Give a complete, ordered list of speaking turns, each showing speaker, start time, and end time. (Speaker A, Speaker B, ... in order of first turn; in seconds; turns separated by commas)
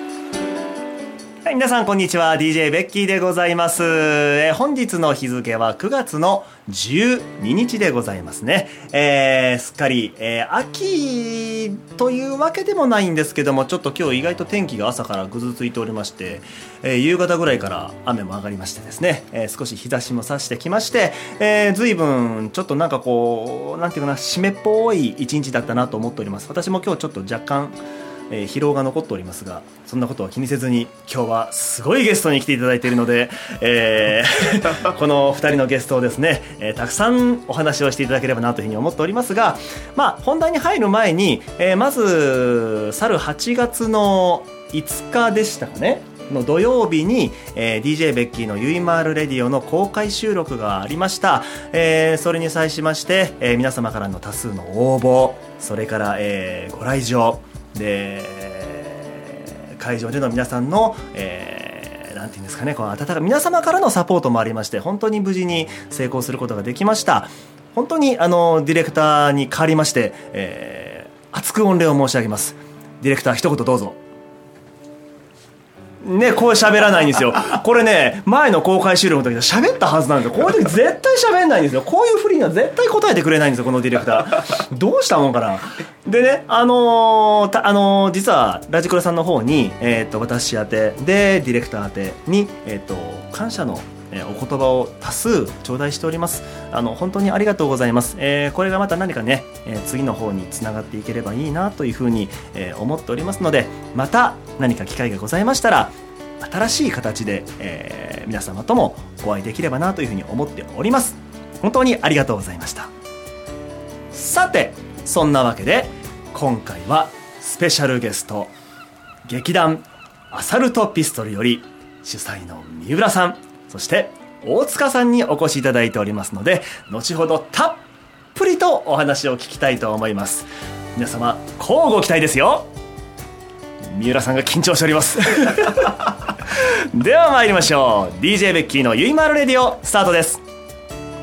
Speaker A: 1.4-74.0, Speaker A: 76.0-112.9, Speaker A: 114.1-118.5, Speaker A: 119.3-127.8, Speaker A: 128.3-132.7, Speaker A: 133.9-140.4